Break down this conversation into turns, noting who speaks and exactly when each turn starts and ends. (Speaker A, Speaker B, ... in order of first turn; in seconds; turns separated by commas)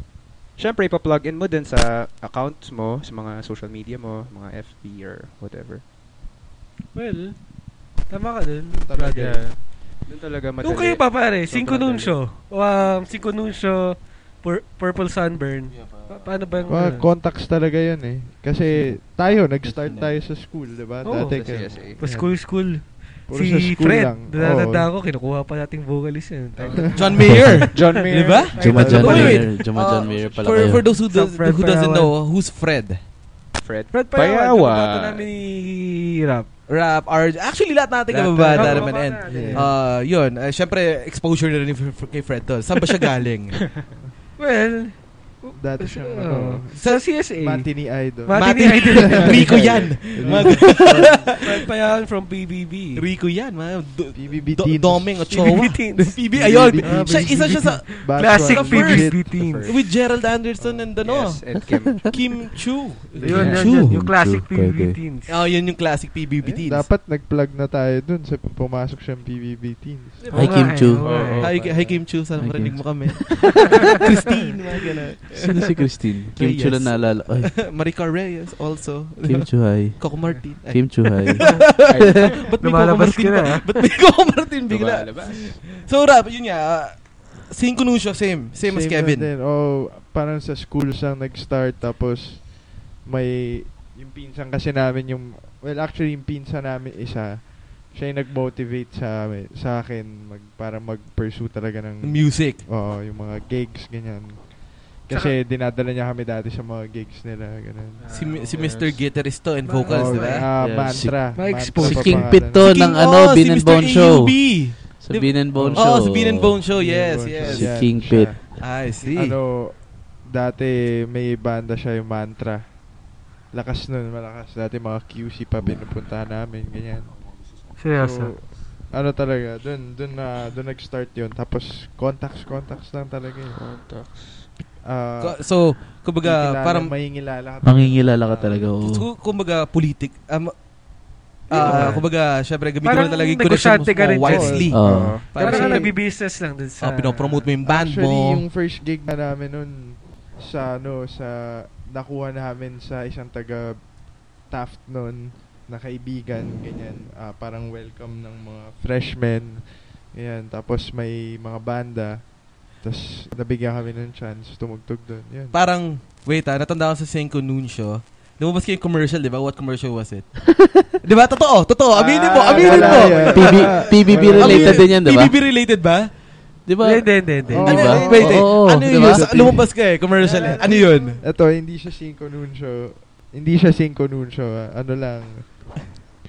Speaker A: 0.6-5.8, Speaker B: 6.9-7.4, Speaker B: 8.1-9.4, Speaker C: 8.7-9.4, Speaker A: 9.2-12.2, Speaker B: 10.6-17.1, Speaker C: 16.7-22.4, Speaker B: 21.0-29.5, Speaker A: 21.0-22.0, Speaker C: 23.3-24.9, Speaker A: 26.6-27.2, Speaker D: 26.9-33.0, Speaker E: 27.3-27.6, Speaker A: 27.7-28.8, Speaker E: 28.6-30.9, Speaker C: 28.7-29.5, Speaker B: 30.7-32.2, Speaker A: 33.6-35.3, Speaker B: 33.9-36.5, Speaker D: 36.7-43.6, Speaker A: 38.1-39.0, Speaker B: 38.5-39.8, Speaker C: 39.2-39.7, Speaker A: 43.6-43.9, Speaker B: 44.4-47.7, Speaker C: 45.5-51.3, Speaker D: 46.8-47.1, Speaker B: 48.2-49.7, Speaker D: 48.3-51.6, Speaker B: 50.3-53.1, Speaker D: 53.0-61.5, Speaker C: 54.1-55.5, Speaker B: 55.3-56.2, Speaker C: 56.2-59.3, Speaker B: 56.8-59.8, Speaker A: 59.3-59.9, Speaker A: 61.0-62.1, Speaker D: 62.0-64.0, Speaker C: 63.2-63.8, Speaker B: 63.2-65.4, Speaker E: 63.3-65.0, Speaker D: 65.3-66.9, Speaker C: 66.4-70.4, Speaker D: 70.3-75.8, Speaker B: 70.3-71.5, Speaker E: 70.3-71.0, Speaker A: 71.0-72.0, Speaker E: 72.4-73.4, Speaker E: 75.3-77.5, Speaker D: 76.3-89.3, Speaker E: 79.2-80.1, Speaker E: 80.7-81.5, Speaker B: 81.4-83.7, Speaker A: 81.9-82.3, Speaker A: 84.7-85.6, Speaker C: 88.6-108.1, Speaker D: 102.0-102.6, Speaker B: 108.0-108.8, Speaker D: 108.1-110.5, Speaker A: 108.5-109.0, Speaker B: 109.6-110.5, Speaker C: 109.9-112.7, Speaker E: 110.6-116.6, Speaker B: 111.3-112.3, Speaker D: 112.6-117.9, Speaker C: 115.5-115.9, Speaker C: 116.7-118.5, Speaker E: 117.4-118.3, Speaker D: 118.6-119.4, Speaker C: 119.0-122.9, Speaker C: 123.5-127.2, Speaker B: 127.8-128.3, Speaker C: 128.0-133.6, Speaker A: 133.6-134.5, Speaker C: 134.8-135.4, Speaker D: 135.2-136.9, Speaker C: 136.2-138.7, Speaker E: 137.6-139.1, Speaker D: 138.8-140.6, Speaker D: 141.5-145.9, Speaker C: 141.6-142.0, Speaker A: 141.6-142.0, Speaker B: 141.6-142.0, Speaker B: 142.8-144.8, Speaker C: 144.2-145.9, Speaker E: 144.7-145.3, Speaker A: 144.8-145.6, Speaker B: 145.3-147.5, Speaker D: 146.8-148.4, Speaker C: 147.7-165.6, Speaker D: 165.5-170.3, Speaker D: 171.0-176.1, Speaker A: 171.9-173.7, Speaker C: 172.4-174.9, Speaker E: 173.3-175.4, Speaker E: 176.7-179.5, Speaker B: 176.8-177.9, Speaker C: 177.5-179.7, Speaker D: 177.6-181.2, Speaker A: 177.8-178.3, Speaker A: 180.2-181.2, Speaker C: 180.3-180.6, Speaker C: 181.2-185.7